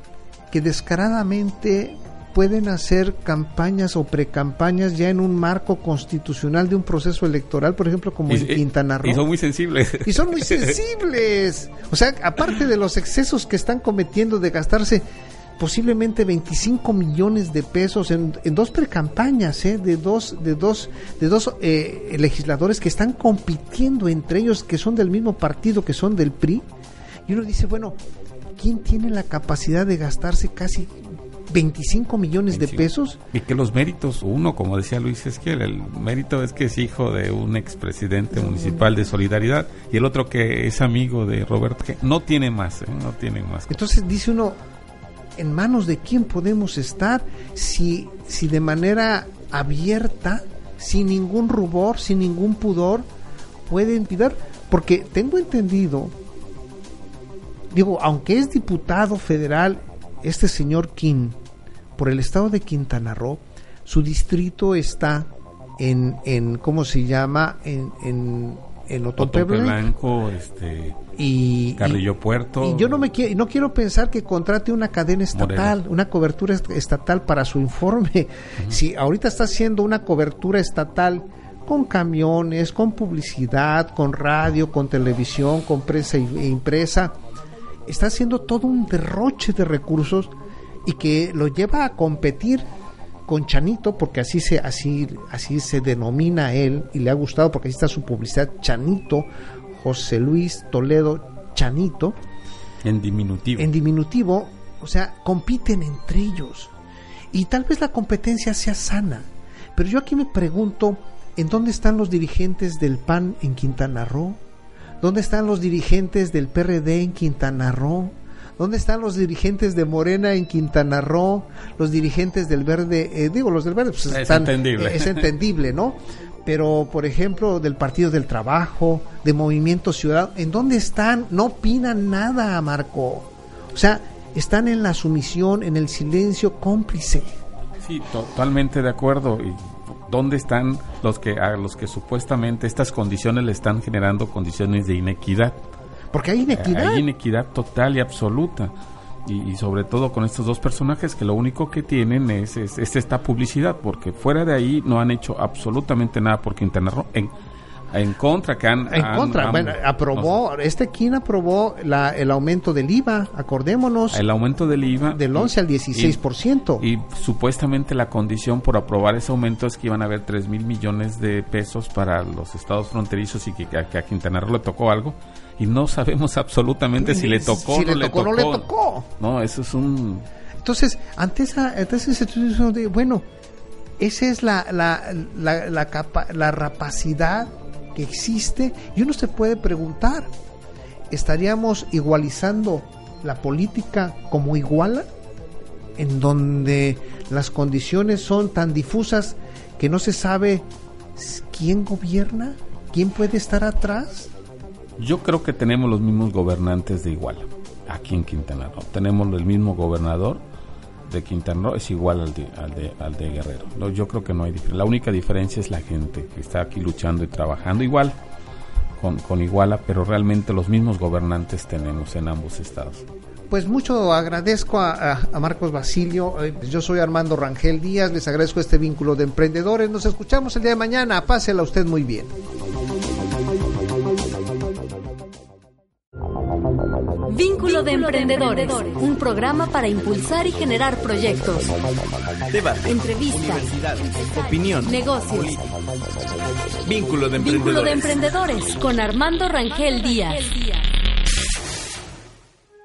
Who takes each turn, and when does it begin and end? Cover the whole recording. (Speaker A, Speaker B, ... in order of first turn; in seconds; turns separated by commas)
Speaker A: 0.5-9.2, Speaker B: 8.3-10.8, Speaker A: 10.0-15.1, Speaker A: 15.6-26.6, Speaker A: 27.3-28.0, Speaker A: 28.6-33.2, Speaker B: 32.5-43.8, Speaker A: 38.3-38.9, Speaker A: 43.7-44.6, Speaker A: 45.4-53.0, Speaker A: 53.7-56.1, Speaker A: 57.7-61.4, Speaker A: 62.0-69.9, Speaker B: 69.2-71.0, Speaker A: 71.2-72.0, Speaker B: 71.8-73.1, Speaker A: 72.6-87.1, Speaker B: 75.3-75.8, Speaker A: 87.9-90.3, Speaker A: 90.8-92.7, Speaker A: 93.3-102.2, Speaker B: 102.8-103.7, Speaker A: 103.6-106.7, Speaker A: 107.3-114.4, Speaker A: 115.0-137.3, Speaker B: 124.1-125.3, Speaker B: 137.8-145.6, Speaker A: 146.1-147.0, Speaker B: 146.5-148.7, Speaker B: 149.2-157.3, Speaker B: 157.9-160.3, Speaker A: 158.9-164.3, Speaker B: 164.1-166.2, Speaker A: 165.1-166.8, Speaker B: 166.8-178.7, Speaker A: 177.0-179.1, Speaker B: 179.2-180.3, Speaker A: 180.6-183.2, Speaker A: 184.0-190.3, Speaker A: 191.1-195.1, Speaker A: 196.0-204.3, Speaker B: 205.0-210.4, Speaker B: 211.0-218.2, Speaker B: 219.0-223.1, Speaker A: 223.5-232.3, Speaker C: 237.2-241.8, Speaker D: 242.5-245.7, Speaker C: 242.8-243.7, Speaker C: 244.6-245.6, Speaker D: 246.8-248.2, Speaker C: 247.4-250.9